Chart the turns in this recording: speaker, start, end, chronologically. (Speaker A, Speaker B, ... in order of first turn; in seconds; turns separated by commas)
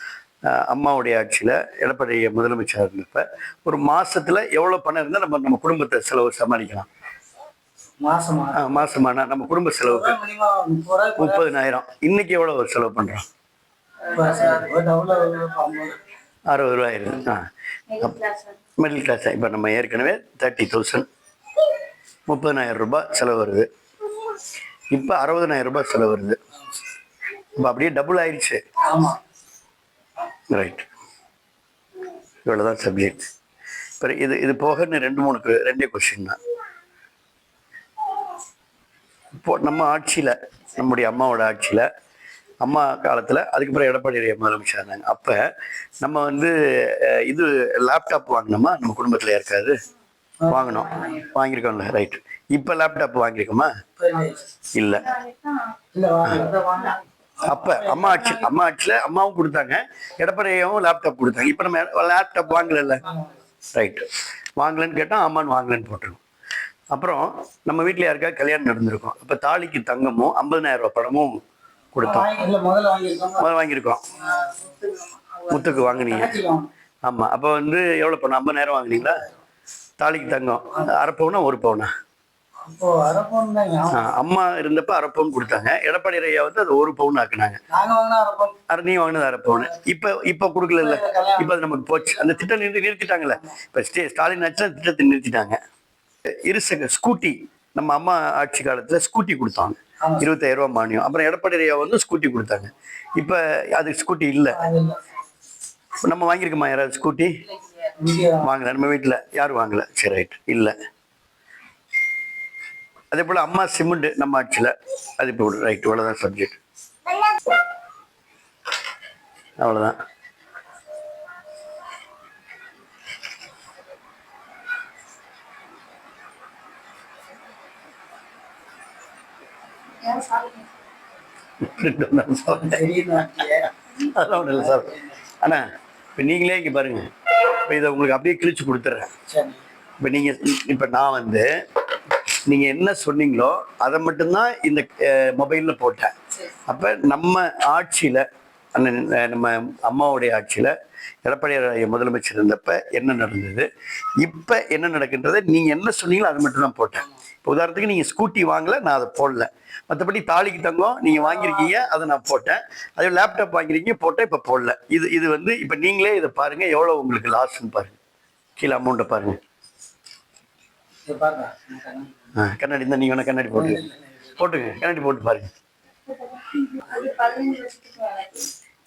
Speaker A: 0.5-6.9, Speaker B: 8.0-8.9, Speaker A: 8.5-10.2, Speaker B: 9.8-11.5, Speaker A: 11.2-13.2, Speaker C: 14.0-14.8, Speaker B: 14.1-16.0, Speaker A: 16.5-17.4, Speaker C: 17.9-18.6, Speaker A: 18.8-21.1, Speaker A: 22.3-23.6, Speaker A: 24.9-26.4, Speaker A: 27.6-28.6, Speaker B: 28.8-29.2, Speaker A: 30.5-30.9, Speaker A: 32.4-33.3, Speaker A: 34.0-36.4, Speaker A: 39.3-41.9, Speaker A: 42.6-45.4, Speaker A: 46.0-49.7, Speaker B: 50.4-51.1, Speaker A: 50.5-53.7, Speaker B: 54.0-54.4, Speaker A: 54.7-55.2, Speaker B: 55.9-58.4, Speaker A: 57.4-63.0, Speaker A: 63.7-64.0, Speaker A: 64.6-66.2, Speaker A: 66.9-71.3, Speaker A: 71.9-72.3, Speaker B: 72.0-73.5, Speaker A: 73.4-74.1, Speaker C: 74.1-75.9, Speaker A: 75.5-76.4, Speaker B: 75.8-76.7, Speaker A: 77.0-79.2, Speaker A: 80.0-81.9, Speaker B: 82.6-84.1, Speaker A: 83.9-87.6, Speaker B: 87.7-88.5, Speaker A: 88.7-95.6, Speaker B: 90.8-91.5, Speaker A: 96.4-104.6, Speaker B: 100.0-100.3, Speaker B: 104.5-105.0, Speaker A: 106.0-107.4, Speaker C: 107.5-107.9, Speaker B: 108.0-108.5, Speaker A: 108.4-110.7, Speaker A: 113.1-116.6, Speaker A: 119.6-120.0, Speaker C: 130.0-130.6, Speaker A: 131.6-132.8, Speaker B: 132.4-133.7, Speaker A: 133.9-135.6, Speaker B: 134.3-135.1, Speaker A: 136.2-139.1, Speaker B: 139.3-139.6, Speaker A: 140.0-141.4, Speaker A: 142.5-146.1, Speaker A: 146.7-150.7, Speaker A: 151.2-153.7, Speaker A: 154.2-168.0, Speaker A: 168.6-169.4, Speaker B: 171.1-172.1, Speaker A: 172.3-173.8, Speaker B: 173.5-173.9, Speaker A: 174.4-175.5, Speaker C: 176.1-178.5